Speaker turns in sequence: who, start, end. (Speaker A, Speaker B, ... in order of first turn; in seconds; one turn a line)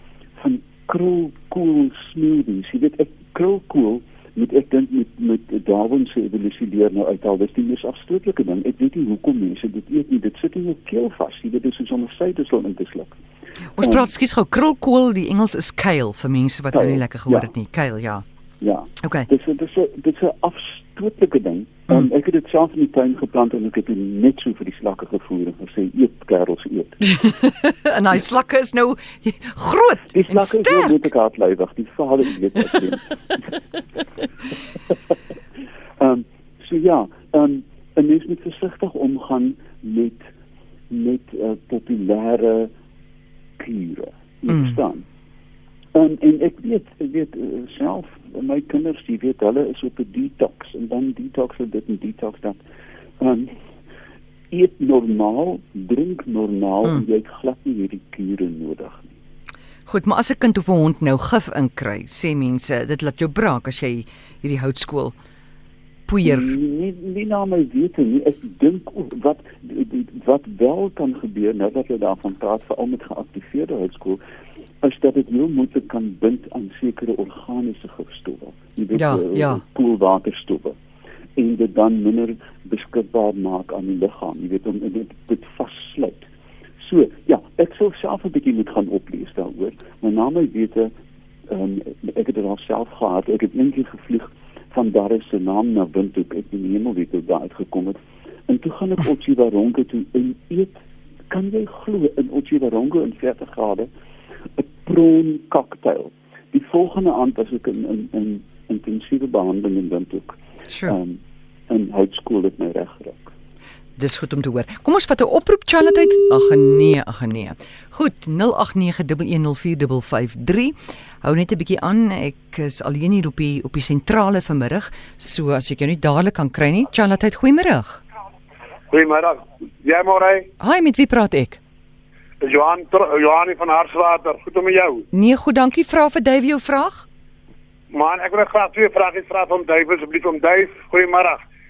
Speaker A: 0.4-13.2
Speaker B: 13.8-18.2
Speaker A: 13.8-14.1
Speaker A: 16.7-17.5
Speaker A: 18.6-27.1
Speaker B: 27.2-31.1
Speaker A: 30.1-33.4
Speaker A: 36.0-40.3
Speaker A: 40.9-42.7
Speaker A: 43.6-45.0
Speaker A: 45.9-52.6
Speaker A: 53.2-53.5
Speaker A: 54.5-59.1
Speaker B: 59.9-65.1
Speaker B: 66.1-66.5
Speaker A: 66.2-74.2
Speaker A: 74.8-80.8
Speaker B: 78.9-79.6
Speaker A: 81.3-86.3
Speaker A: 86.8-90.9
Speaker A: 91.5-100.8
Speaker A: 101.3-103.9
Speaker A: 104.6-113.3
Speaker B: 114.0-128.0
Speaker C: 128.9-130.5
Speaker B: 130.6-131.6
Speaker C: 132.4-135.1
Speaker B: 135.1-137.1
Speaker C: 137.9-141.4